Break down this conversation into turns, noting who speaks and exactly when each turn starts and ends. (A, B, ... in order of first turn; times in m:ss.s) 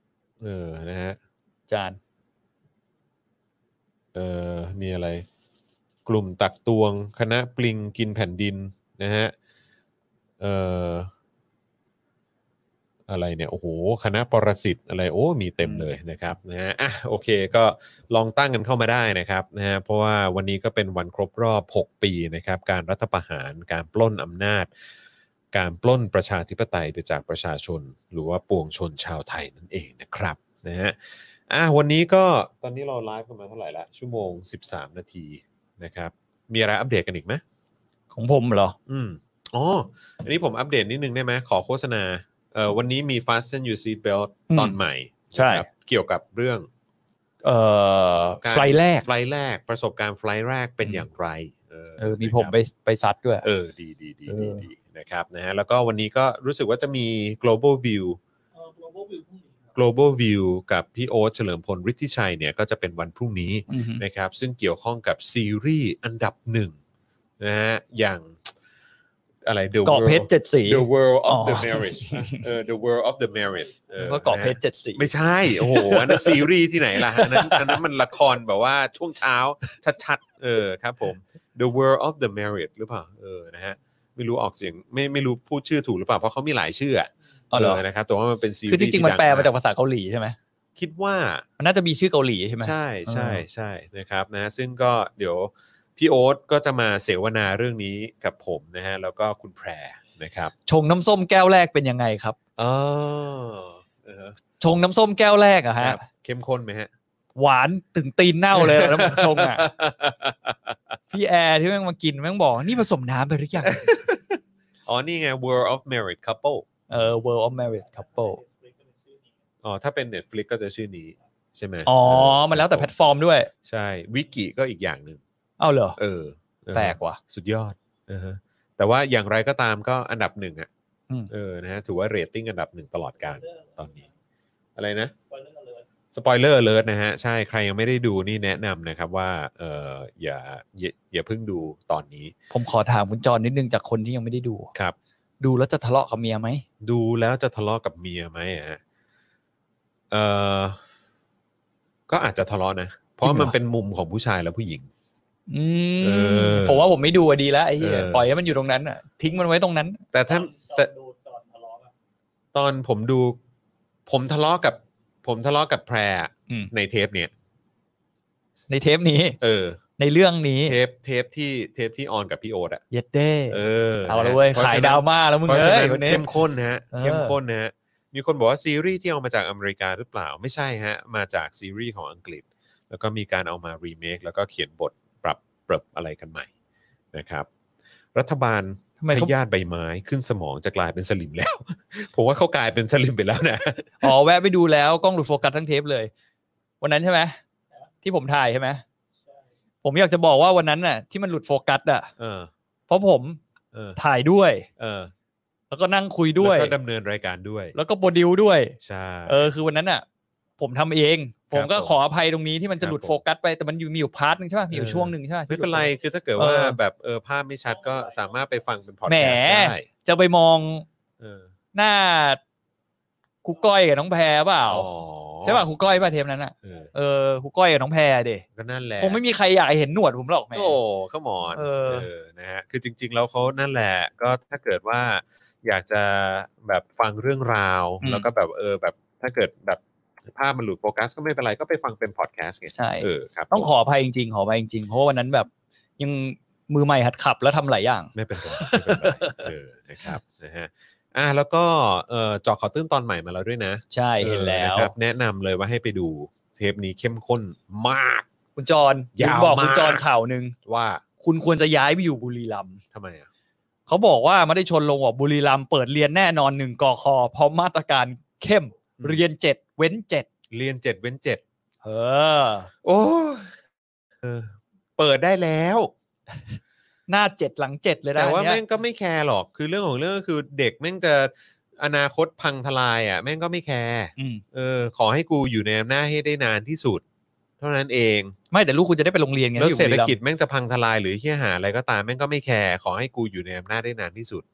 0:00.4-0:01.2 A
0:01.7-0:02.0 B
0:04.1-0:05.2 A
0:06.1-0:09.3 A
0:10.4-0:11.1 A
0:13.1-0:24.7 A
0:15.6-0:15.9 B
0:25.5-0:37.4 A
0:38.1-0:38.8 B
0:38.9-0:46.7 A
0:44.5-0:44.8 B
0:45.3-0:45.7 B
0:47.4-0:49.1 B
0:48.4-0:52.5 A
0:52.0-0:53.5 B
0:53.4-0:58.2 A
0:54.3-0:54.7 B
0:58.6-0:59.7 C
0:59.8-1:06.8 A
1:03.7-1:04.0 B
1:07.4-1:08.5 A
1:09.4-1:29.5 A
1:09.8-1:12.4 B
1:14.0-1:17.8 B
1:27.5-1:27.8 B
1:28.7-1:30.4 B
1:30.8-1:31.4 A
1:31.6-1:33.4 B
1:32.6-1:40.5 A
1:40.7-1:42.4 B
1:42.6-1:44.4 A
1:44.6-1:46.0 B
1:45.8-1:46.9 A
1:47.4-1:49.6 B
1:48.5-1:51.0 A
1:51.1-1:53.9 B
1:53.6-1:57.2 A
1:56.9-1:58.4 B
1:57.6-1:59.4 C
1:59.6-2:02.9 A
2:01.9-2:03.5 B
2:03.6-2:05.2 A
2:05.6-2:06.0 B
2:06.0-2:10.7 A
2:06.7-2:07.2 B
2:11.3-2:14.0 A
2:13.3-2:14.1 C
2:14.8-2:15.1 A
2:15.2-2:15.9 C
2:16.1-2:22.3 A
2:22.5-2:24.7 B
2:25.4-2:26.6 B
2:26.8-2:28.8 A
2:30.1-2:30.8 A
2:32.1-2:34.9 A
2:33.2-2:33.6 B
2:35.5-2:40.0 B
2:36.0-2:36.8 A
2:37.8-2:38.3 A
2:40.1-2:40.9 A
2:40.3-2:41.9 C
2:42.5-2:43.4 A
2:44.1-2:47.3 A
2:48.7-2:49.4 B
2:49.4-2:49.8 A
2:50.0-2:50.8 B
2:50.6-2:52.8 A
2:52.9-2:56.4 B
2:53.5-3:06.5 A
2:56.9-2:57.4 B
3:07.1-3:07.5 A
3:08.2-3:14.1 A
3:09.0-3:09.3 B
3:14.0-3:16.1 B
3:16.8-3:17.4 B
3:18.0-3:18.8 B
3:19.8-3:22.1 B
3:22.2-3:22.5 A
3:22.9-3:23.4 B
3:23.7-3:24.0 A
3:24.0-3:24.7 B
3:24.8-3:25.1 A
3:25.7-3:26.7 B
3:26.4-3:27.8 A
3:27.7-3:30.0 B
3:28.8-3:29.5 A
3:30.6-3:36.8 B
3:31.5-3:31.9 A
3:32.8-3:33.2 A
3:34.7-3:39.9 A
3:37.8-3:38.5 C
3:39.1-3:40.9 B
3:41.2-3:41.5 A
3:41.7-3:42.4 B
3:43.4-3:44.9 B
3:44.7-3:45.7 A
3:45.4-3:48.4 B
3:46.6-3:46.9 A
3:48.6-3:49.2 A
3:49.0-3:50.8 B
3:50.6-4:03.7 A
3:51.6-3:52.1 B
3:58.0-3:58.3 B
4:02.7-4:09.5 B
4:08.1-4:18.3 A
4:13.9-4:14.9 B
4:18.6-4:20.6 B
4:19.2-4:20.0 A
4:20.6-4:21.0 A
4:21.2-4:22.8 B
4:22.9-4:23.3 A
4:23.9-4:30.3 B
4:30.5-4:31.4 A
4:31.8-4:32.7 B
4:32.8-4:33.6 A
4:34.2-4:35.9 A
4:37.1-4:38.6 B
4:38.2-4:47.0 A
4:44.2-4:44.4 B
4:47.6-4:48.3 A
4:48.5-4:50.2 B
4:49.6-4:54.4 A